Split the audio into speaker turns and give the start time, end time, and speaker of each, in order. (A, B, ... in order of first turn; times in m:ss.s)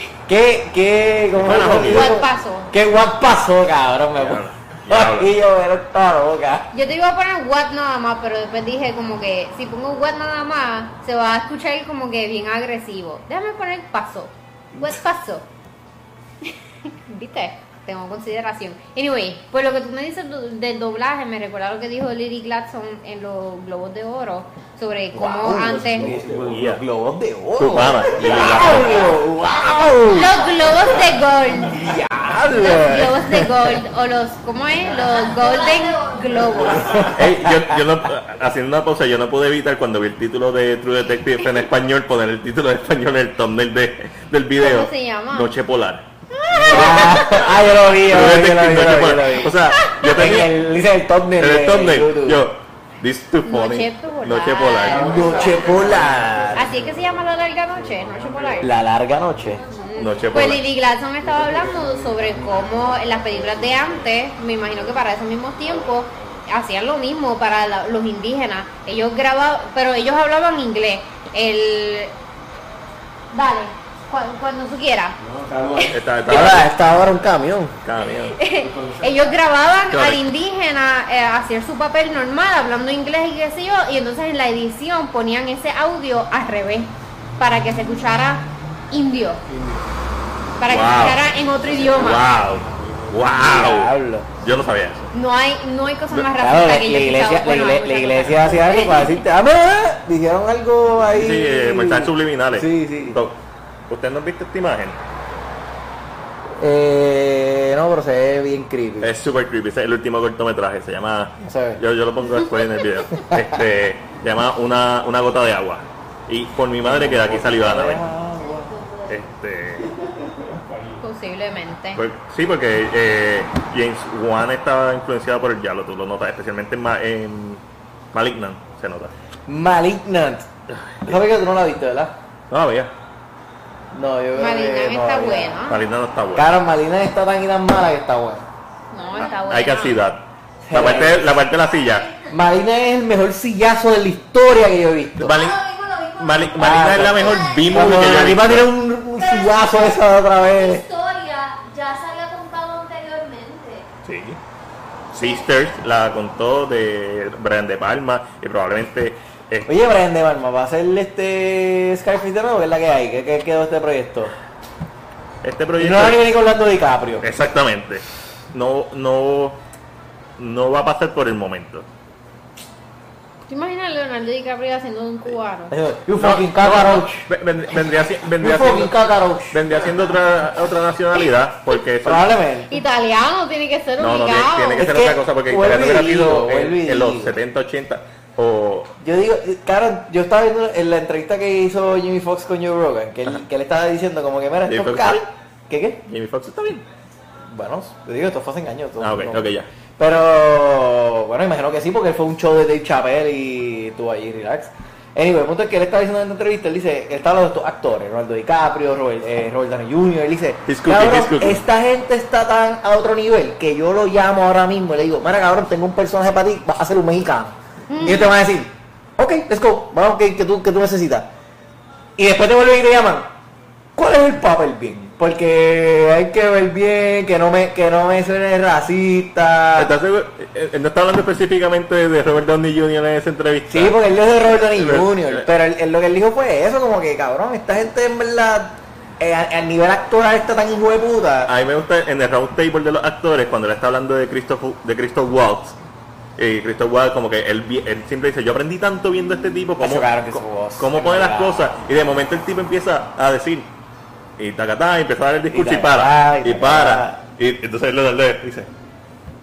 0:00.3-0:06.7 A
0:01.4-0:02.2 B
0:01.6-0:02.7 C
0:04.2-0:05.3 B
0:06.7-0:15.4 C
0:16.4-0:26.1 C
0:25.1-0:30.4 A
0:25.9-0:26.6 D
0:26.4-0:26.8 B
0:27.6-0:29.2 B
0:28.2-0:28.9 C
0:30.1-0:31.9 C
0:31.7-0:33.8 A
0:32.5-0:37.2 C
0:35.0-0:36.8 E
0:36.8-0:37.7 A
0:37.1-0:46.0 B
0:44.6-0:45.5 C
0:46.3-0:47.5 C
0:46.6-0:47.2 D
0:46.6-0:52.5 A
0:48.0-0:50.6 B
0:49.7-0:50.1 C
0:51.4-0:55.2 B
0:53.4-0:55.8 C
0:54.8-0:59.6 D
0:54.9-0:56.8 A
0:56.5-0:58.8 C
0:58.6-0:59.6 A
0:59.6-1:00.0 E
0:59.7-1:12.1 C
1:00.0-1:00.6 B
1:01.2-1:05.1 D
1:05.6-1:06.4 D
1:13.3-1:15.2 C
1:15.2-1:16.1 D
1:15.9-1:16.8 B
1:16.3-1:17.8 A
1:17.8-1:18.4 B
1:18.3-1:29.4 C
1:18.5-1:19.4 D
1:19.9-1:20.3 B
1:29.4-1:30.0 D
1:30.6-1:32.3 C
1:30.7-1:31.2 B
1:31.6-1:33.6 D
1:31.9-1:35.1 B
1:33.4-1:34.3 A
1:35.1-1:39.2 C
1:36.4-1:43.2 A
1:41.1-1:43.4 B
1:43.9-1:45.0 B
1:46.6-1:49.1 A
1:49.0-1:58.1 B
1:51.4-1:51.8 A
1:56.8-1:58.8 A
1:58.4-1:59.1 E
1:59.1-1:59.9 B
2:00.5-2:01.0 D
2:01.0-2:02.0 C
2:02.0-2:07.6 B
2:08.1-2:09.1 B
2:09.5-2:10.5 A
2:10.7-2:11.1 B
2:11.0-2:12.1 A
2:12.5-2:12.9 B
2:13.9-2:15.6 A
2:14.4-2:15.8 C
2:15.7-2:16.5 B
2:16.4-2:18.4 A
2:18.9-2:20.0 C
2:19.0-2:19.5 E
2:19.5-2:22.1 B
2:20.6-2:21.4 A
2:21.7-2:22.3 E
2:22.3-2:25.3 A
2:25.2-2:25.6 B
2:25.3-2:28.0 E
2:26.2-2:28.7 B
2:26.6-2:30.8 A
2:29.2-2:33.9 E
2:34.0-2:34.4 B
2:35.1-2:39.7 B
2:39.7-2:44.3 A
2:45.4-2:46.3 B
2:45.8-2:47.3 A
2:47.2-2:49.6 B
2:50.4-2:51.9 B
2:53.5-2:55.7 C
2:55.7-2:57.3 A
2:56.1-2:59.0 B
2:58.4-2:59.6 A
2:59.5-3:02.3 B
3:02.0-3:02.8 A
3:02.7-3:04.9 C
3:04.0-3:08.9 B
3:04.8-3:07.4 A
3:09.0-3:16.0 A
3:14.7-3:15.2 B
3:16.1-3:16.8 B
3:17.5-3:41.3 A
3:19.0-3:19.7 B
3:30.7-3:31.6 B
3:37.9-3:38.3 C
3:42.2-3:43.3 A
3:44.0-3:49.9 A
3:49.8-3:54.0 B
3:53.7-4:01.5 A
3:54.5-3:55.5 B
4:01.5-4:05.8 B
4:06.4-4:13.7 B
4:09.8-4:11.6 A
4:14.4-4:18.7 B
4:15.5-4:17.2 A